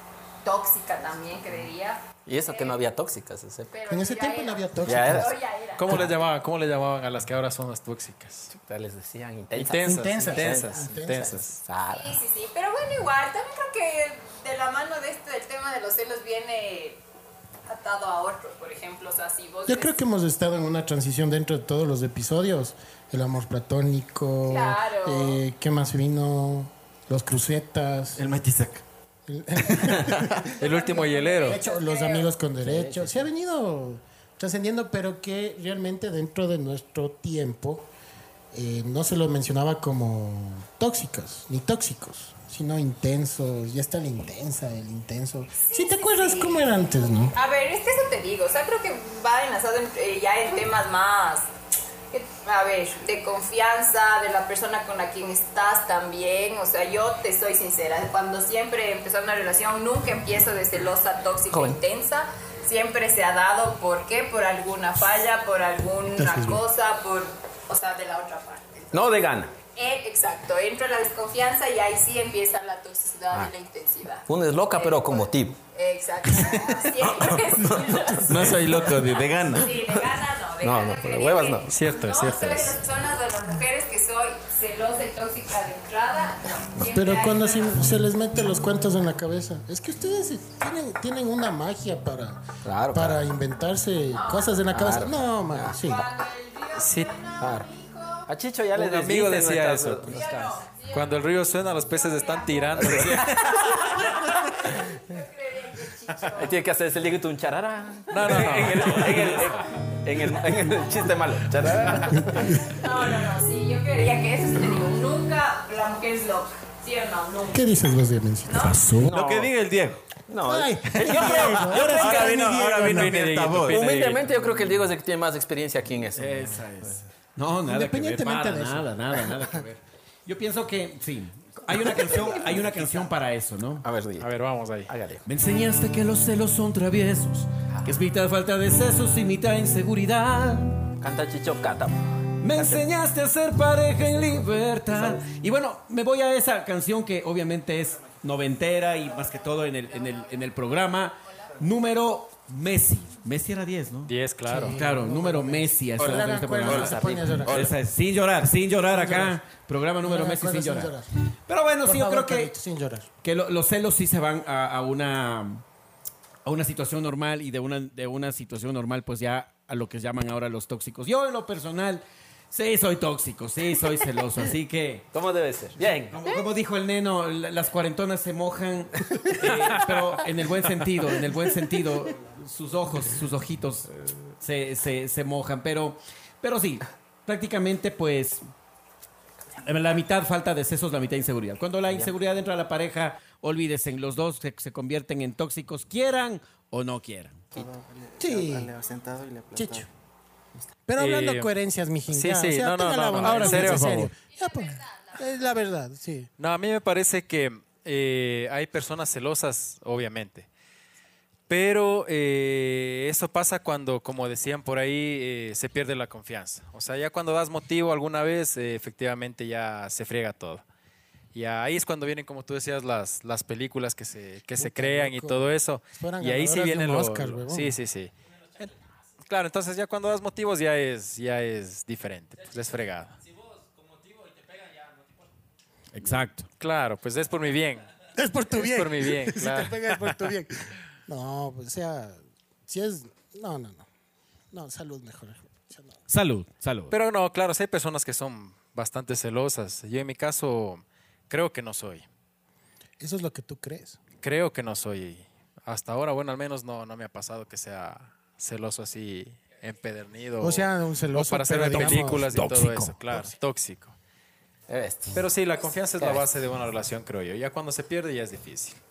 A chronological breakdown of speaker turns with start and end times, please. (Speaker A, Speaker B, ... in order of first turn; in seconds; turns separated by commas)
Speaker A: 0.4-2.8, Speaker B: 2.3-3.7, Speaker A: 3.7-6.1, Speaker C: 3.9-5.4, Speaker B: 4.8-5.3, Speaker D: 5.8-8.5, Speaker B: 8.5-12.2, Speaker D: 9.6-11.6, Speaker C: 9.7-11.4, Speaker A: 11.9-17.0, Speaker A: 17.7-20.0, Speaker C: 19.7-28.2, Speaker A: 24.4-25.4, Speaker E: 28.2-28.8, Speaker C: 29.3-30.4, Speaker E: 29.7-30.5, Speaker A: 30.4-32.3, Speaker D: 30.6-31.6, Speaker C: 31.4-37.9, Speaker B: 32.6-33.2, Speaker C: 38.5-47.3, Speaker A: 45.6-46.8, Speaker A: 47.3-51.5, Speaker A: 52.1-78.6, Speaker B: 61.5-61.8, Speaker C: 66.2-66.6, Speaker B: 68.9-69.5, Speaker B: 74.3-75.6, Speaker B: 77.0-78.8, Speaker E: 78.2-80.0, Speaker A: 79.5-87.8, Speaker B: 80.6-81.7, Speaker D: 81.7-82.8, Speaker C: 86.8-96.1, Speaker B: 92.7-93.2, Speaker A: 94.1-94.6, Speaker B: 94.7-95.8, Speaker A: 95.8-98.3, Speaker D: 96.8-97.1, Speaker B: 97.4-97.7, Speaker B: 98.3-100.3, Speaker D: 98.8-103.9, Speaker A: 100.1-106.6, Speaker B: 102.8-104.1, Speaker B: 106.4-112.6, Speaker D: 108.1-109.5, Speaker C: 112.2-112.6, Speaker A: 112.4-117.7, Speaker C: 117.5-119.1, Speaker A: 118.5-118.9, Speaker F: 118.7-119.1, Speaker B: 119.0-119.5, Speaker E: 119.0-120.0, Speaker B: 120.3-122.5, Speaker C: 120.4-123.2, Speaker E: 121.0-123.9, Speaker D: 122.9-124.3, Speaker B: 123.7-126.7, Speaker F: 126.1-133.8, Speaker C: 127.7-129.4, Speaker B: 131.8-133.1, Speaker B: 133.8-134.3, Speaker D: 134.2-134.9, Speaker B: 134.9-135.3, Speaker F: 135.3-140.9, Speaker B: 141.0-142.9, Speaker F: 142.4-160.9, Speaker B: 144.1-145.2, Speaker A: 149.8-150.5, Speaker A: 151.2-151.5, Speaker D: 154.1-154.8, Speaker C: 154.5-157.7, Speaker E: 156.0-157.8, Speaker C: 158.9-159.4, Speaker C: 160.0-161.1, Speaker F: 161.5-162.5, Speaker C: 161.8-163.1, Speaker F: 163.2-165.6, Speaker F: 166.4-175.1, Speaker B: 175.1-176.2, Speaker F: 176.1-188.4, Speaker B: 179.4-179.8, Speaker F: 189.6-197.5, Speaker E: 197.5-199.8, Speaker C: 198.2-198.7, Speaker C: 199.5-199.9, Speaker C: 200.9-206.3, Speaker D: 201.0-201.5, Speaker D: 202.1-204.1, Speaker A: 204.4-205.2, Speaker D: 206.4-210.5, Speaker D: 211.5-220.6, Speaker D: 221.3-228.1, Speaker C: 224.6-227.8, Speaker D: 229.3-233.2, Speaker F: 235.9-236.5, Speaker D: 236.6-237.9, Speaker C: 238.2-243.9, Speaker D: 238.6-240.2, Speaker C: 244.5-246.0, Speaker F: 246.1-246.9, Speaker D: 246.9-252.1, Speaker C: 253.0-254.0, Speaker D: 254.2-263.9, Speaker C: 260.4-262.4, Speaker F: 261.6-263.1, Speaker B: 264.7-265.2, Speaker D: 265.1-268.8, Speaker B: 266.0-266.3